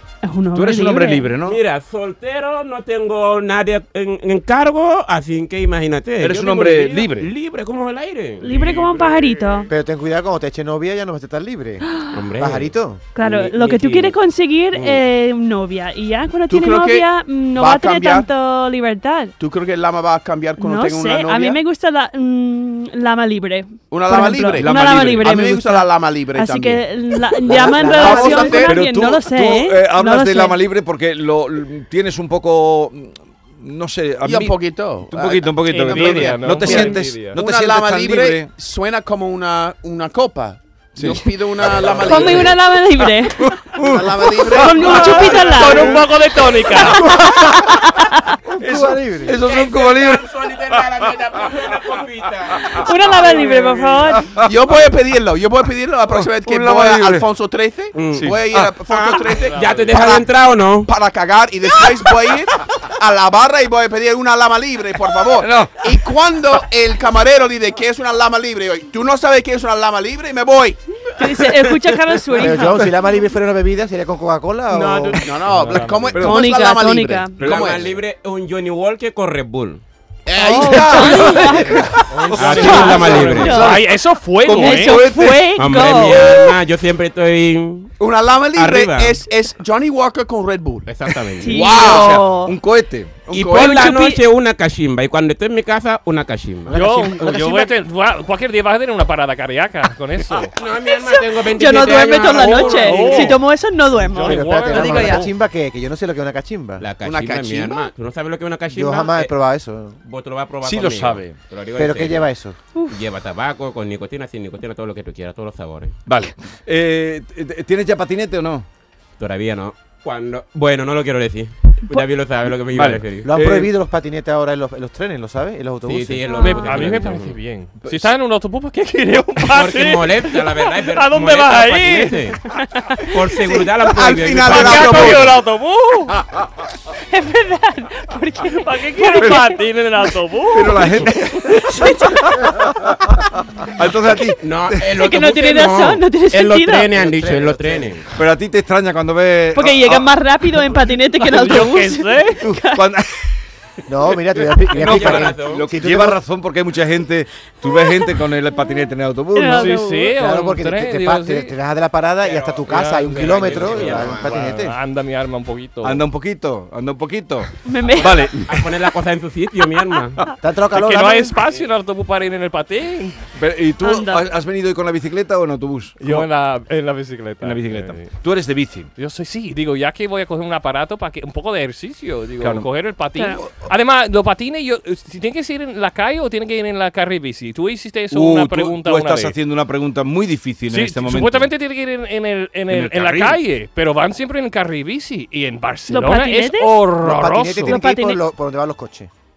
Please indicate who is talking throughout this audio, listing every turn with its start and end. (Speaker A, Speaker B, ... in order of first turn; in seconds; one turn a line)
Speaker A: 0.2-1.3
Speaker B: 0.5-1.6
Speaker C: 1.4-9.7
Speaker B: 6.2-7.3
Speaker A: 8.4-9.7
Speaker D: 8.9-9.4
Speaker E: 9.7-13.1
Speaker A: 11.9-12.2
Speaker C: 12.1-14.2
Speaker A: 13.2-19.3
Speaker C: 14.7-15.0
Speaker F: 16.5-18.3
Speaker F: 19.4-21.6
Speaker A: 20.6-30.6
Speaker F: 23.9-26.9
Speaker B: 24.5-25.5
Speaker F: 27.5-28.8
Speaker E: 27.5-28.7
Speaker B: 28.0-38.5
Speaker F: 34.2-42.6
Speaker D: 35.7-37.4
Speaker B: 41.0-42.6
Speaker A: 42.0-43.7
Speaker B: 43.4-54.9
Speaker F: 43.8-46.0
Speaker A: 44.5-46.1
Speaker D: 44.8-47.1
Speaker A: 46.7-48.4
Speaker E: 48.6-49.4
Speaker C: 49.4-52.9
Speaker A: 52.7-54.3
Speaker F: 54.4-60.3
Speaker B: 56.1-57.3
Speaker C: 57.9-60.9
Speaker B: 58.1-59.2
Speaker D: 59.5-59.9
Speaker F: 60.9-71.9
Speaker B: 61.7-62.9
Speaker B: 65.3-66.1
Speaker A: 71.2-72.9
Speaker E: 72.4-75.3
Speaker C: 74.7-76.2
Speaker F: 75.2-77.9
Speaker D: 75.5-76.0
Speaker B: 75.6-76.4
Speaker A: 76.2-77.4
Speaker B: 77.4-77.9
Speaker C: 77.4-79.8
Speaker F: 80.3-83.5
Speaker A: 80.4-83.9
Speaker B: 80.9-86.4
Speaker C: 81.0-83.7
Speaker D: 83.3-85.1
Speaker A: 84.5-86.5
Speaker C: 85.5-87.9
Speaker F: 88.0-92.2
Speaker C: 88.5-89.2
Speaker C: 90.9-91.9
Speaker A: 91.4-92.6
Speaker B: 91.5-93.3
Speaker F: 93.3-94.0
Speaker C: 93.3-96.9
Speaker A: 93.5-94.2
Speaker E: 96.7-97.7
Speaker D: 96.7-100.5
Speaker C: 100.5-103.4
Speaker A: 100.7-105.3
Speaker D: 102.3-103.4
Speaker D: 104.1-105.3
Speaker E: 104.2-106.8
Speaker C: 106.8-109.3
Speaker F: 107.0-107.9
Speaker E: 108.7-110.0
Speaker C: 110.0-112.3
Speaker B: 110.6-111.4
Speaker E: 111.8-112.6
Speaker C: 112.9-116.0
Speaker B: 116.1-118.7
Speaker C: 119.2-123.3
Speaker B: 122.7-123.7
Speaker E: 123.2-127.0
Speaker C: 125.9-127.4
Speaker A: 126.3-126.7
Speaker D: 126.4-132.4
Speaker B: 127.8-128.1
Speaker C: 129.5-132.4
Speaker A: 132.6-133.0
Speaker C: 133.1-135.3
Speaker F: 133.4-135.4
Speaker D: 134.5-136.2
Speaker A: 137.1-139.6
Speaker D: 138.5-141.0
Speaker B: 139.2-139.5
Speaker B: 140.5-144.8
Speaker A: 141.5-142.3
Speaker C: 144.4-148.2
Speaker A: 144.9-146.9
Speaker E: 146.9-147.9
Speaker B: 148.1-150.1
Speaker A: 149.5-152.8
Speaker D: 151.2-152.4
Speaker B: 152.4-153.4
Speaker E: 153.9-156.2
Speaker B: 154.4-159.7
Speaker C: 154.7-155.7
Speaker A: 157.6-158.6
Speaker A: 159.3-160.1
Speaker D: 159.5-161.5
Speaker E: 160.2-164.8
Speaker C: 162.2-164.4
Speaker D: 162.7-166.0
Speaker B: 165.8-168.7
Speaker A: 167.7-168.4
Speaker C: 168.4-170.2
Speaker E: 170.4-171.4
Speaker D: 170.7-173.2
Speaker B: 173.4-176.3
Speaker A: 173.8-174.3
Speaker D: 176.0-178.1
Speaker B: 177.4-178.9
Speaker D: 179.0-189.4
Speaker B: 182.4-182.7
Speaker A: 183.2-183.4
Speaker B: 188.1-191.5
Speaker D: 190.7-197.8
Speaker B: 192.7-193.4
Speaker A: 195.9-196.8
Speaker E: 197.0-199.1
Speaker A: 197.7-198.2